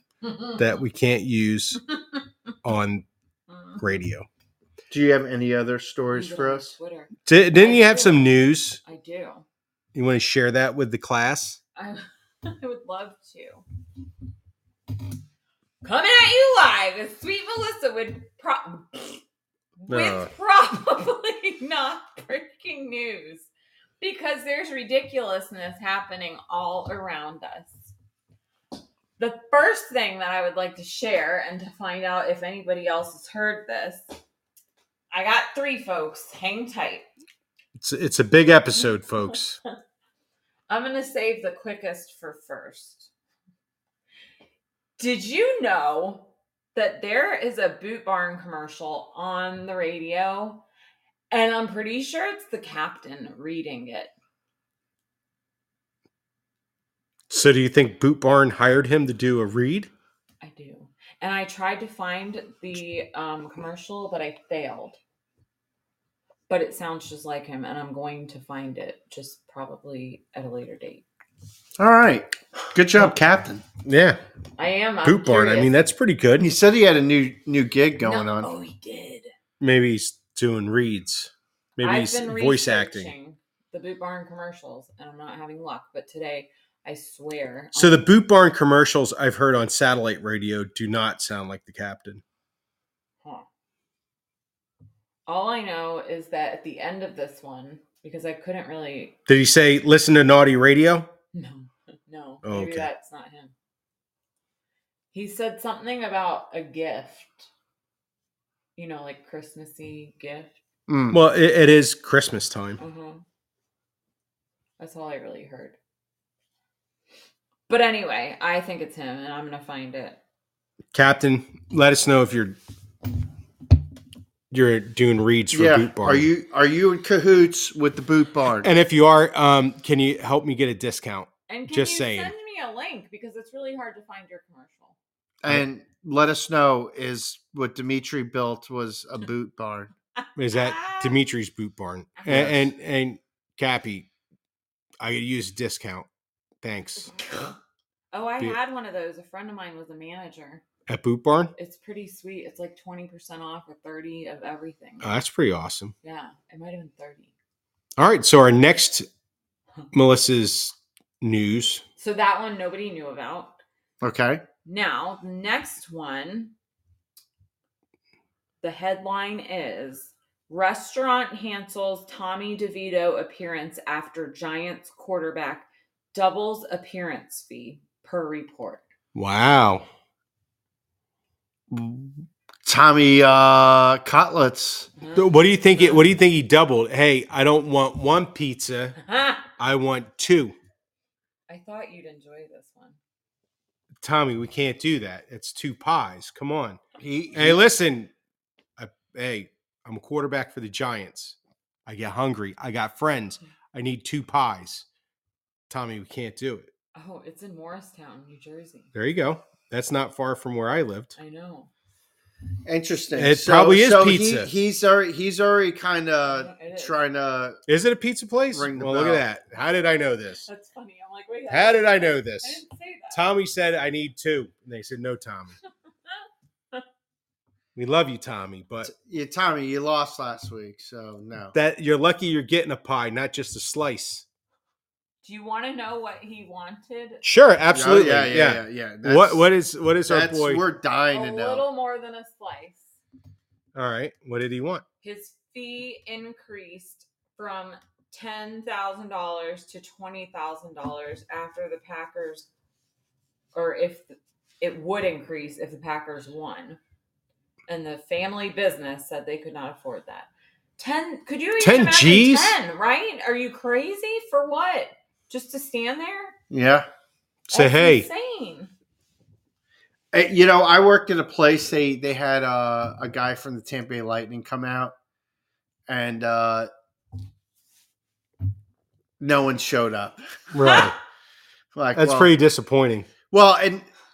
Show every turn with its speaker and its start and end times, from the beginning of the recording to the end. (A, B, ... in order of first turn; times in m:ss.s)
0:00.2-0:00.5 A
0:00.6-0:01.8 B
0:02.6-0:03.0 B
0:03.5-0:03.8 A
0:03.8-0:04.3 B
0:04.9-0:06.7 C
0:06.1-0:09.4 A
0:07.3-0:08.8 B
0:10.0-0:11.6 B
0:11.8-0:13.6 A
0:15.8-0:19.2 A
0:19.8-0:27.9 A
0:19.9-0:20.3 B
0:29.2-0:34.2 A
0:35.1-0:37.1 A
0:37.8-0:39.6 B
0:40.7-0:43.1 A
0:45.0-0:50.6 A
0:51.3-0:54.1 A
0:57.3-0:59.9 B
1:00.4-1:05.0 A
1:06.5-1:11.0 A
1:11.8-1:13.6 C
1:13.8-1:14.2 B
1:14.6-1:15.8 A
1:15.0-1:16.5 B
1:16.4-1:18.5 C
1:18.0-1:19.3 A
1:19.6-1:23.1 B
1:21.8-1:28.1 A
1:27.8-1:32.2 B
1:35.3-1:39.2 A
1:39.3-1:41.1 B
1:41.3-1:43.5 A
1:42.4-1:42.9 B
1:45.1-1:47.5 A
1:48.8-1:50.6 A
1:50.9-1:51.2 C
1:51.1-1:52.8 B
1:52.8-1:53.2 A
1:54.8-1:55.8 A
1:57.7-2:00.2 A
2:00.9-2:02.6 B
2:04.5-2:06.3 B
2:05.5-2:08.7 C
2:08.6-2:12.3 B
2:11.5-2:15.0 A
2:15.4-2:19.9 C
2:20.4-2:24.1 B
2:20.5-2:21.2 A
2:22.2-2:22.6 A
2:22.3-2:22.7 C
2:25.0-2:26.1 B
2:26.6-2:27.2 B
2:27.1-2:27.5 A
2:28.1-2:30.6 A
2:30.9-2:31.5 B
2:31.6-2:35.1 A
2:35.0-2:35.9 B
2:36.0-2:37.3 A
2:38.0-2:39.1 B
2:39.9-2:41.8 B
2:42.0-2:43.6 A
2:44.0-2:44.4 C
2:44.6-2:46.5 A
2:48.6-2:58.8 A
2:59.2-2:59.9 B
3:01.7-3:04.9 C
3:05.0-3:06.0 A
3:05.2-3:09.0 B
3:09.0-3:09.4 A
3:09.6-3:10.6 B
3:11.5-3:13.0 A
3:14.0-3:16.8 B
3:17.0-3:17.6 C
3:17.3-3:18.1 B
3:18.8-3:24.9 B
3:25.7-3:26.7 B
3:27.0-3:28.9 A
3:29.0-3:31.1 B
3:31.2-3:31.7 A
3:32.6-3:37.6 C
3:33.2-3:34.5 B
3:36.3-3:37.0 A
3:37.7-3:40.5 B
3:38.5-3:39.2 C
3:40.5-3:43.2 A
3:41.5-3:45.6 B
3:46.1-3:46.8 A
3:47.8-3:48.9 B
3:48.8-3:51.6 C
3:51.5-3:54.2 B
3:55.2-3:57.2 A
3:57.2-4:00.6 B
3:57.7-3:59.5 C
4:00.1-4:01.6 C
4:01.1-4:03.0 A
4:03.8-4:04.8 B
4:05.0-4:12.5 A
4:13.5-4:16.8 A
4:17.7-4:26.4 A
4:21.6-4:22.6 B
4:26.5-4:26.9 C
4:27.5-4:28.1 B
4:27.5-4:28.7 A
4:30.1-4:34.9 C
4:35.9-4:36.7 C
4:39.2-4:40.5 C
4:40.5-4:41.0 B
4:40.6-4:40.9 A
4:41.8-4:42.3 C
4:42.0-4:43.1 B
4:43.3-4:43.9 C